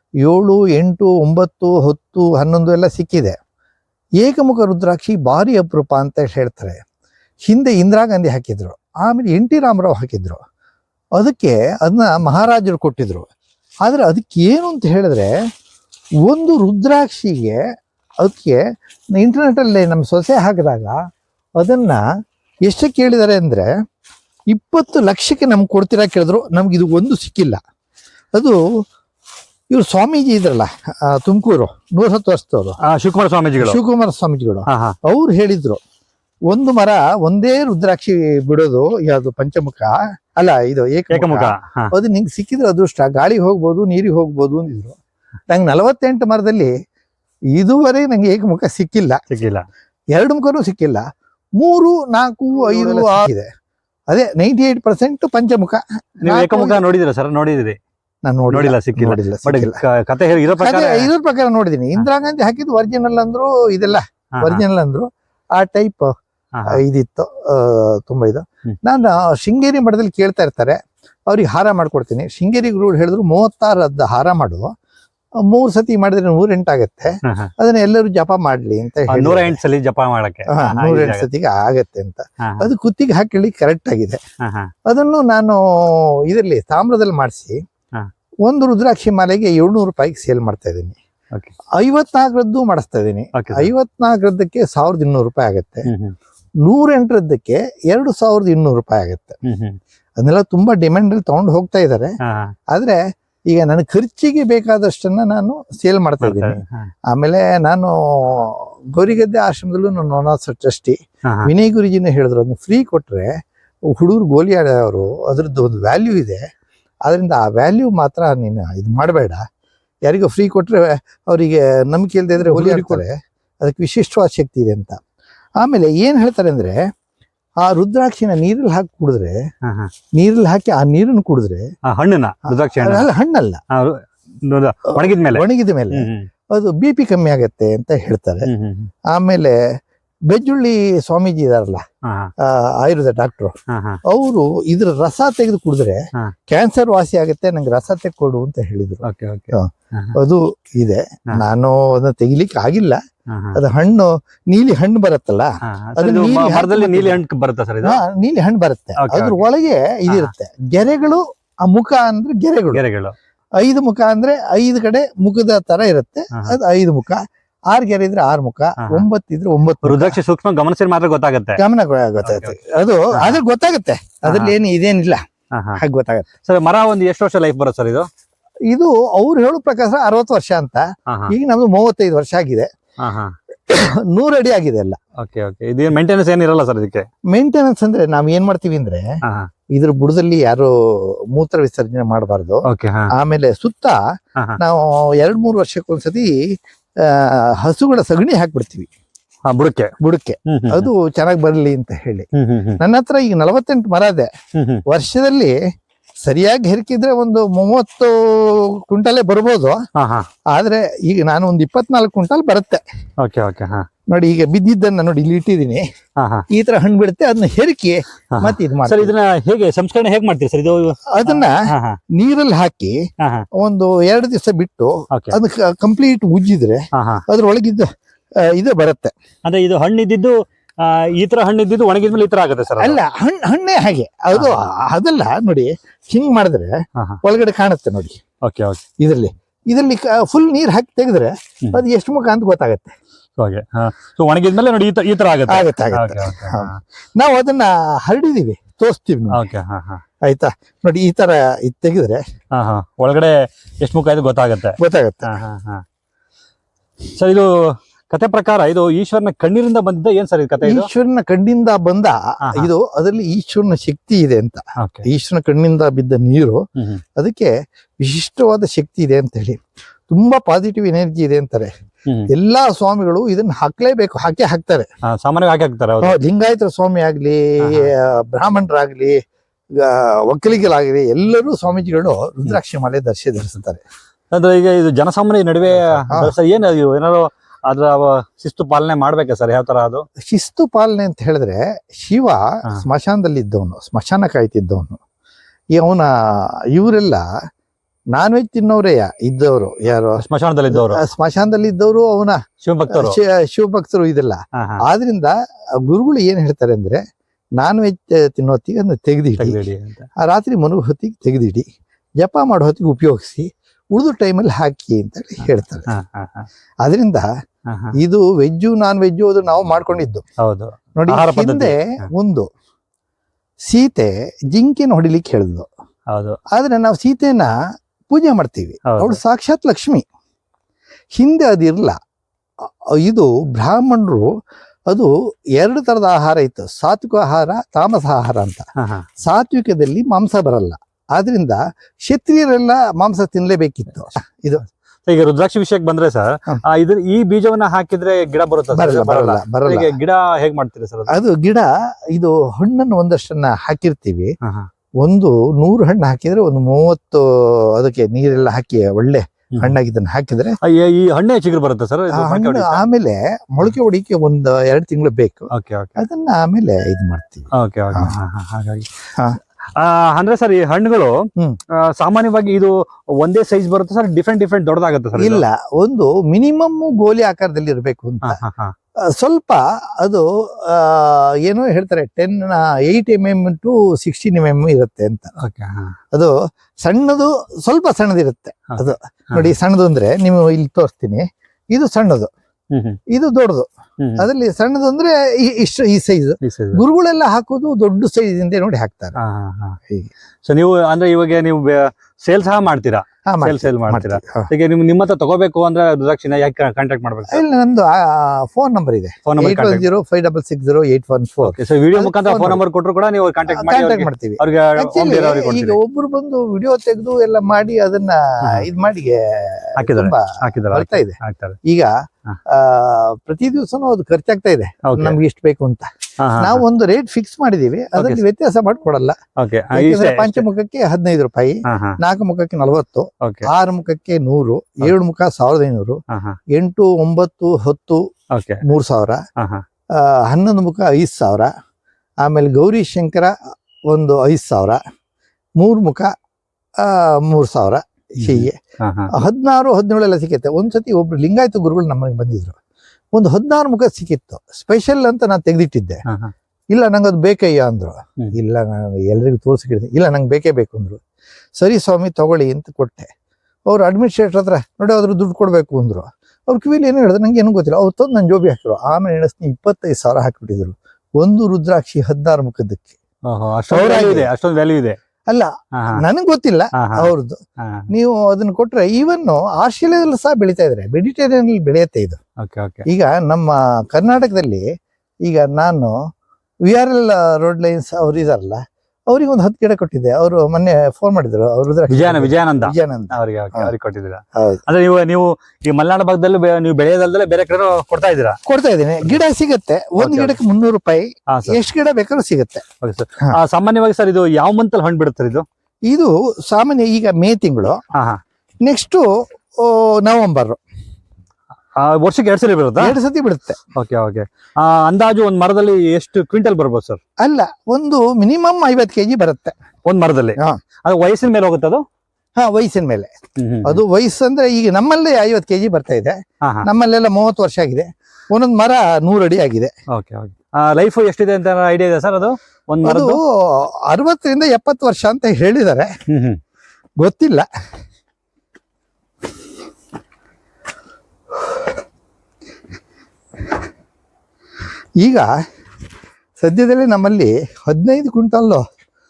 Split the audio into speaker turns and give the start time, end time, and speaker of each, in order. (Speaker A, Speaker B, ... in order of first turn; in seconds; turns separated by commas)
Speaker A: 0.2-3.4, Speaker A: 4.2-6.8, Speaker A: 7.5-10.4, Speaker A: 11.2-13.3, Speaker A: 13.8-15.3, Speaker A: 16.2-17.6, Speaker A: 18.2-18.6, Speaker A: 19.1-21.0, Speaker A: 21.6-22.0, Speaker A: 22.7-23.7, Speaker A: 24.5-27.6, Speaker A: 28.3-28.6, Speaker A: 29.7-32.8, Speaker B: 32.8-33.8, Speaker A: 33.6-35.8, Speaker B: 34.7-35.0, Speaker A: 36.5-45.0, Speaker B: 41.1-41.9, Speaker A: 45.5-46.7, Speaker A: 47.5-49.2, Speaker B: 49.3-49.6, Speaker A: 50.1-51.0, Speaker A: 51.6-53.5, Speaker B: 52.6-53.3, Speaker A: 54.1-56.8, Speaker B: 56.2-57.8, Speaker A: 58.3-59.8, Speaker B: 58.5-61.1, Speaker A: 60.5-66.1, Speaker B: 64.3-64.6, Speaker B: 66.5-66.8, Speaker A: 66.7-74.7, Speaker A: 75.5-79.6, Speaker B: 77.2-77.5, Speaker B: 79.1-81.3, Speaker A: 80.5-84.2, Speaker B: 82.4-82.7, Speaker B: 84.4-84.7, Speaker A: 84.9-87.6, Speaker A: 88.5-91.0, Speaker A: 91.8-95.9, Speaker B: 93.3-93.7, Speaker B: 95.9-96.2, Speaker A: 96.6-99.4, Speaker B: 99.5-99.8, Speaker A: 100.2-102.1, Speaker B: 102.2-102.5, Speaker A: 102.7-103.0, Speaker A: 103.5-113.3, Speaker B: 106.2-106.9, Speaker B: 111.3-111.5, Speaker A: 113.9-116.5, Speaker A: 117.1-119.4, Speaker A: 120.0-125.0, Speaker B: 122.4-123.0, Speaker A: 125.6-126.8, Speaker A: 127.6-129.4, Speaker B: 129.7-129.9, Speaker A: 130.2-131.7, Speaker B: 131.9-133.1, Speaker A: 132.5-133.6, Speaker B: 133.7-136.3, Speaker A: 134.9-138.5, Speaker B: 138.5-138.9, Speaker A: 139.1-139.6, Speaker A: 140.3-141.8, Speaker B: 142.1-142.3, Speaker A: 142.4-143.5, Speaker B: 143.7-144.0, Speaker A: 144.1-153.0, Speaker B: 149.0-150.2, Speaker B: 153.3-153.6, Speaker A: 153.6-157.2, Speaker B: 155.7-158.0, Speaker A: 157.8-162.8, Speaker B: 159.0-159.4, Speaker B: 162.7-163.2, Speaker A: 163.6-170.2, Speaker B: 168.8-169.1, Speaker B: 169.8-171.6, Speaker A: 171.6-175.2, Speaker B: 172.2-172.6, Speaker B: 173.1-173.4, Speaker B: 174.2-174.6, Speaker B: 175.6-175.8, Speaker A: 175.8-176.3, Speaker B: 176.4-178.1, Speaker A: 178.7-182.7, Speaker B: 181.1-181.3, Speaker B: 183.0-183.3, Speaker A: 183.7-185.0, Speaker B: 185.2-187.1, Speaker A: 187.3-189.1, Speaker A: 189.8-194.0, Speaker B: 192.7-193.1, Speaker A: 194.6-196.4, Speaker A: 197.0-198.9, Speaker B: 199.5-199.9, Speaker A: 200.0-202.3, Speaker B: 200.5-200.9, Speaker B: 202.3-202.8, Speaker A: 202.8-204.3, Speaker B: 204.6-204.8, Speaker A: 204.9-205.6, Speaker A: 206.2-209.8, Speaker B: 209.9-210.3, Speaker A: 210.5-212.8, Speaker B: 213.2-213.9, Speaker A: 214.1-215.8, Speaker B: 216.2-216.5, Speaker A: 216.5-219.1, Speaker B: 218.3-222.0, Speaker A: 221.1-221.6, Speaker A: 222.1-223.0, Speaker B: 223.2-223.5, Speaker A: 223.6-227.9, Speaker B: 226.9-227.2, Speaker A: 228.4-229.1, Speaker B: 229.5-233.0, Speaker A: 232.8-238.2, Speaker B: 238.4-238.8, Speaker A: 239.0-242.9, Speaker B: 243.4-246.8, Speaker A: 245.5-249.4, Speaker B: 249.3-250.0, Speaker A: 250.2-252.2, Speaker B: 252.5-255.8, Speaker A: 254.8-255.3, Speaker B: 257.1-260.9, Speaker A: 260.6-266.6, Speaker B: 264.8-265.1, Speaker B: 266.8-267.0, Speaker A: 267.2-271.7, Speaker A: 272.3-274.9, Speaker B: 275.1-276.2, Speaker A: 276.0-279.2, Speaker B: 277.6-277.9, Speaker A: 279.8-283.8, Speaker B: 284.3-290.1, Speaker A: 285.9-286.3, Speaker A: 290.2-295.0, Speaker A: 295.7-297.3, Speaker A: 298.1-302.4, Speaker B: 300.2-301.0, Speaker B: 302.6-303.2, Speaker A: 302.9-307.0, Speaker B: 304.6-304.8, Speaker A: 307.6-309.6, Speaker B: 309.4-310.1, Speaker A: 310.2-311.6, Speaker A: 312.2-315.9, Speaker B: 315.9-316.5, Speaker A: 316.8-317.3, Speaker B: 317.7-318.0, Speaker A: 318.0-320.2, Speaker B: 320.4-321.8, Speaker A: 321.0-322.5, Speaker A: 323.7-325.7, Speaker B: 326.1-326.4, Speaker A: 326.5-327.5, Speaker A: 328.1-330.1, Speaker B: 328.9-329.2, Speaker A: 331.1-332.0, Speaker A: 332.6-334.3, Speaker A: 334.9-338.6, Speaker B: 338.8-339.1, Speaker A: 339.2-344.6, Speaker B: 345.1-351.1, Speaker A: 348.7-349.9, Speaker A: 351.1-354.3, Speaker B: 354.4-354.7, Speaker A: 355.0-360.6, Speaker B: 360.6-362.8, Speaker A: 362.1-368.1, Speaker B: 365.5-366.0, Speaker B: 367.5-368.9, Speaker B: 369.8-371.1, Speaker B: 371.8-375.4, Speaker A: 375.2-378.4, Speaker B: 378.2-378.7, Speaker A: 379.0-385.3, Speaker B: 385.4-386.0, Speaker A: 386.1-392.3, Speaker B: 388.7-389.5, Speaker B: 392.7-393.0, Speaker A: 393.1-393.7, Speaker B: 394.0-394.3, Speaker A: 394.2-399.1, Speaker B: 396.4-396.8, Speaker B: 399.2-399.8, Speaker B: 400.4-407.4, Speaker A: 403.3-404.5, Speaker A: 407.3-412.6, Speaker B: 409.2-409.9, Speaker B: 411.4-415.8, Speaker A: 413.5-421.9, Speaker B: 419.8-421.6, Speaker A: 422.5-429.2, Speaker B: 424.9-425.2, Speaker B: 426.2-426.6, Speaker B: 428.0-428.2, Speaker B: 429.4-430.5, Speaker A: 429.8-436.0, Speaker B: 431.7-432.0, Speaker B: 433.2-433.5, Speaker B: 436.1-436.4, Speaker A: 436.5-438.0, Speaker B: 438.3-438.6, Speaker A: 438.6-439.2, Speaker B: 439.4-439.6, Speaker A: 439.9-441.5, Speaker A: 442.2-443.3, Speaker A: 443.9-444.8, Speaker A: 445.6-446.1, Speaker A: 446.8-448.6, Speaker B: 448.2-449.1, Speaker A: 449.1-452.6, Speaker A: 453.1-456.0, Speaker B: 456.1-456.3, Speaker A: 456.7-461.0, Speaker A: 461.6-463.1, Speaker A: 463.7-472.9, Speaker B: 473.3-475.0, Speaker A: 473.7-474.3, Speaker A: 475.3-477.4, Speaker B: 475.8-476.0, Speaker B: 476.8-477.1, Speaker B: 477.6-477.9, Speaker A: 477.9-482.2, Speaker B: 482.4-482.9, Speaker A: 482.9-484.7, Speaker A: 485.2-486.0, Speaker A: 486.7-493.7, Speaker B: 491.9-498.4, Speaker A: 494.4-494.6, Speaker A: 498.5-502.6, Speaker B: 500.0-500.4, Speaker B: 501.3-501.6, Speaker B: 502.8-505.4, Speaker A: 505.9-507.8, Speaker B: 507.9-508.2, Speaker A: 508.6-510.6, Speaker B: 511.8-513.0, Speaker A: 512.8-513.6, Speaker B: 513.8-517.0, Speaker A: 517.2-519.5, Speaker B: 519.9-521.8, Speaker A: 522.4-523.1, Speaker B: 523.4-523.8, Speaker A: 523.6-529.7, Speaker B: 526.4-526.7, Speaker B: 529.9-533.2, Speaker A: 532.8-535.9, Speaker B: 536.1-536.4, Speaker A: 537.0-537.5, Speaker A: 545.0-545.3, Speaker A: 546.4-548.6